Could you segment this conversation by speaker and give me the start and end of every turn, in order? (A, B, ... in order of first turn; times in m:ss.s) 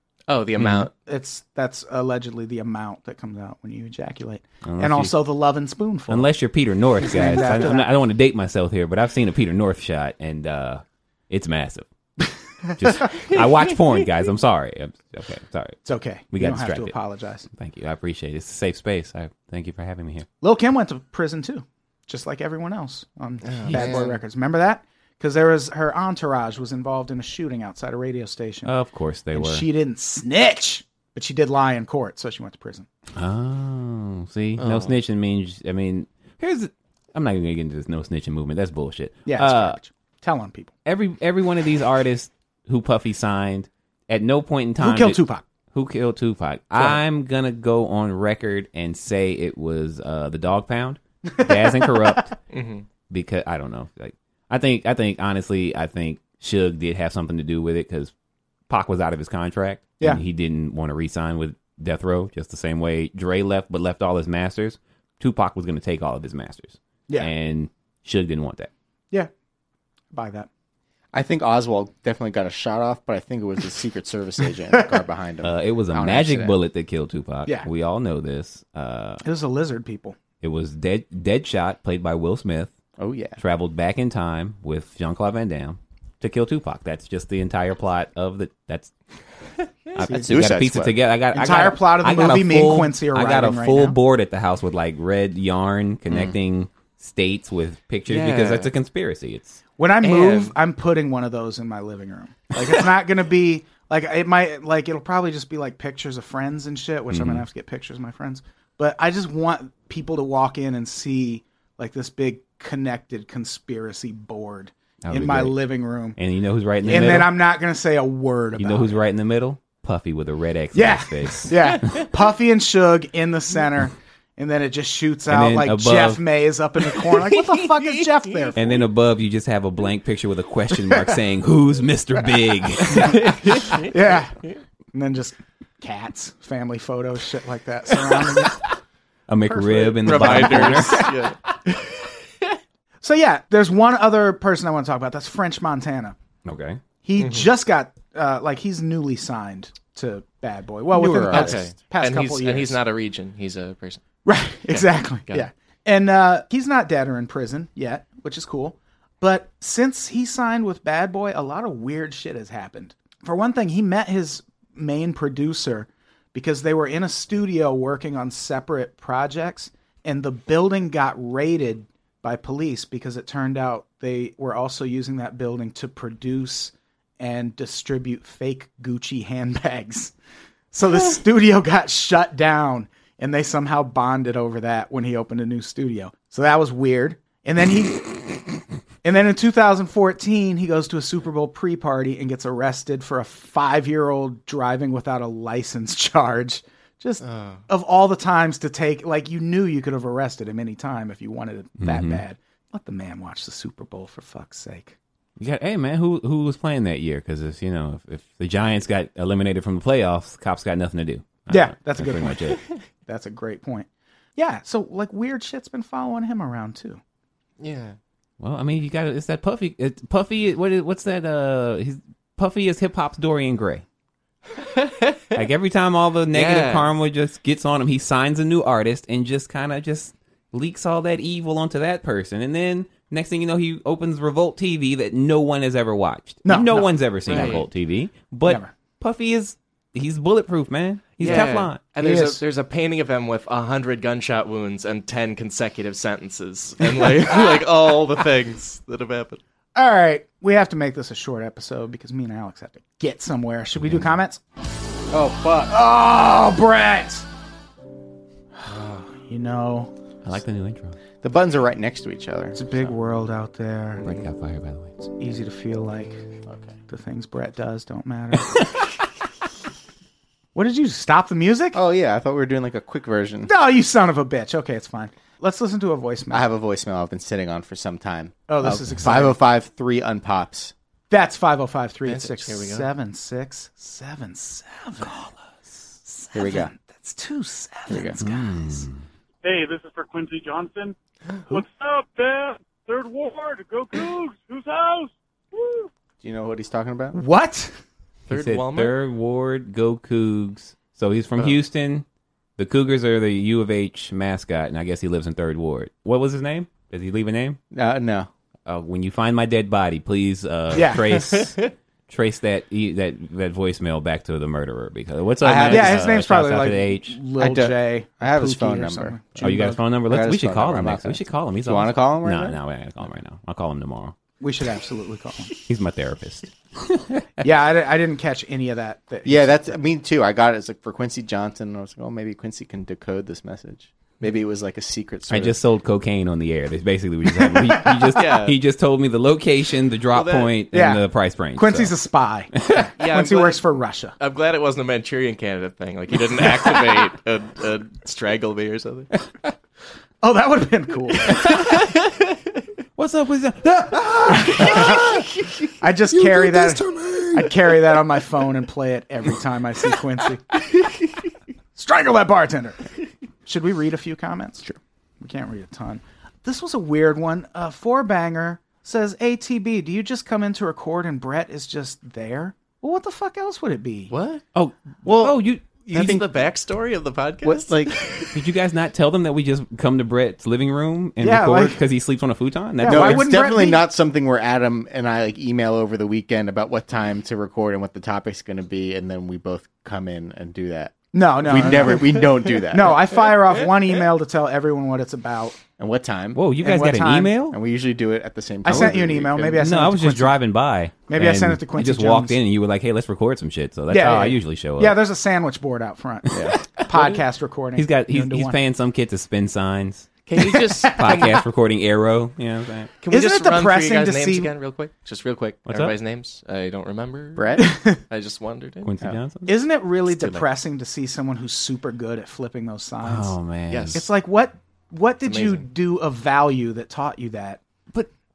0:00.3-0:00.9 A
0:00.6-0:00.9 B
0:01.0-0:06.3 C
0:04.6-0:05.1 B
0:06.1-0:11.8 B
0:07.0-0:07.9 C
0:12.7-0:13.0 C
0:12.8-0:16.9 B
0:13.4-0:13.9 A
0:15.8-0:17.4 C
0:17.5-0:20.3 B
0:20.4-0:28.7 C
0:23.4-0:24.2 A
0:23.7-0:23.9 B
0:28.6-0:29.6 B
0:29.3-0:32.8 C
0:33.2-0:39.8 B
0:34.6-0:34.9 A
0:39.2-0:40.7 C
0:40.8-0:52.3 B
0:44.8-0:45.4 C
0:51.2-0:52.3 C
0:52.5-0:52.9 A
0:53.1-0:58.1 B
0:58.7-1:08.7 B
1:10.1-1:10.5 C
1:11.1-1:16.5 D
1:15.4-1:19.2 B
1:19.2-1:20.2 C
1:20.4-1:22.7 B
1:23.0-1:23.4 D
1:23.4-1:28.9 B
1:29.9-1:39.6 B
1:30.0-1:30.3 C
1:30.1-1:30.9 D
1:31.3-1:34.0 C
1:36.1-1:36.3 D
1:38.1-1:38.7 A
1:39.8-1:56.2 C
1:40.0-1:40.5 A
1:47.1-1:47.4 B
1:55.0-1:55.6 B
1:56.2-1:57.4 B
1:56.8-1:59.0 C
1:58.6-2:02.1 B
2:00.7-2:08.8 C
2:05.3-2:06.2 B
2:08.6-2:13.8 B
2:13.0-2:13.9 A
2:13.8-2:14.4 C
2:14.9-2:18.6 C
2:19.3-2:21.1 B
2:19.5-2:21.1 C
2:20.0-2:22.5 A
2:23.0-2:26.2 C
2:26.4-2:26.8 B
2:27.0-2:32.8 C
2:27.2-2:27.5 A
2:31.0-2:31.4 D
2:31.0-2:31.6 B
2:31.3-2:34.0 A
2:34.2-3:00.1 C
2:34.7-2:35.5 A
3:00.7-3:08.4 C
3:09.0-3:25.0 C
3:17.2-3:17.6 A
3:21.8-3:22.2 B
3:25.4-3:32.6 B
3:31.5-3:32.5 C
3:33.0-3:37.0 C
3:37.6-3:38.0 A
3:38.4-3:43.8 B
3:44.6-3:45.4 A
3:45.3-4:01.8 B
3:46.3-3:46.9 A
3:56.4-3:57.6 C
3:57.3-3:57.7 A
3:58.4-3:58.7 C
4:01.2-4:09.4 A
4:02.0-4:02.4 C
4:06.8-4:07.5 C
4:09.7-4:14.4 C
4:13.8-4:14.2 B
4:15.1-4:15.7 D
4:15.7-4:17.2 C
4:18.6-4:19.9 C
4:20.2-4:21.0 B
4:21.2-4:22.6 D
4:22.5-4:24.2 C
4:24.0-4:24.9 B
4:25.2-4:26.2 C
4:26.5-4:26.7 D
4:26.9-4:28.6 C
4:30.5-4:31.8 C
4:31.7-4:33.5 D
4:33.4-4:36.5 C
4:36.3-4:40.7 D
4:38.5-4:39.4 C
4:41.1-4:45.3 C
4:42.0-4:42.9 A
4:46.1-4:48.9 C
4:46.3-4:46.7 D
4:47.9-4:48.2 D
4:48.2-4:49.0 B
4:49.4-4:51.0 E
4:51.5-4:55.9 E
4:56.2-4:57.2 D
4:57.1-4:57.7 C
4:58.3-4:59.0 A
4:58.3-5:02.0 B
5:02.6-5:07.6 B
5:07.7-5:08.3 D
5:08.6-5:17.2 B
5:10.7-5:11.0 C
5:10.9-5:11.7 A
5:15.4-5:19.8 C
5:15.5-5:15.9 D
5:17.4-5:19.2 D
5:19.4-5:24.1 B
5:20.1-5:22.6 D
5:24.4-5:25.5 C
5:25.6-5:27.4 B
5:27.4-5:29.8 C
5:29.2-5:35.6 D
5:35.3-5:41.9 B
5:38.1-5:38.6 A
5:40.1-5:40.5 A
5:40.7-5:41.0 C
5:41.6-5:44.1 C
5:42.5-5:42.9 B
5:43.0-5:49.1 A
5:50.2-5:51.5 C
5:51.3-5:52.6 A
5:53.0-5:55.3 B
5:54.3-5:55.2 C
5:55.8-6:00.4 C
5:56.1-5:57.3 B
6:01.8-6:02.8 C
6:03.4-6:04.6 C
6:05.2-6:14.1 C
6:14.1-6:14.4 A
6:14.5-6:15.8 B
6:15.0-6:16.3 D
6:15.9-6:18.3 A
6:17.4-6:18.3 D
6:18.3-6:23.3 B
6:21.2-6:21.8 C
6:22.8-6:23.8 C
6:22.8-6:33.3 D
6:31.1-6:35.6 C
6:35.8-6:36.4 D
6:36.3-6:37.6 B
6:36.6-6:37.4 C
6:37.5-6:39.6 D
6:38.6-6:40.4 C
6:38.6-6:39.0 B
6:39.6-6:45.0 B
6:41.1-6:42.4 C
6:43.9-6:48.6 C
6:46.3-6:46.6 B
6:46.3-6:46.6 D
6:46.9-6:47.2 A
6:47.8-6:52.9 B
6:50.3-6:51.4 A
6:50.4-6:51.3 C
6:53.0-6:58.9 A
6:53.1-6:54.5 C
6:55.7-6:55.9 B
6:57.4-6:57.7 D
6:57.6-6:58.0 C
6:58.8-6:59.5 B
6:59.4-7:03.4 C
7:00.1-7:00.4 A
7:03.0-7:04.0 B
7:03.7-7:04.0 A
7:03.9-7:07.6 C
7:05.2-7:05.6 A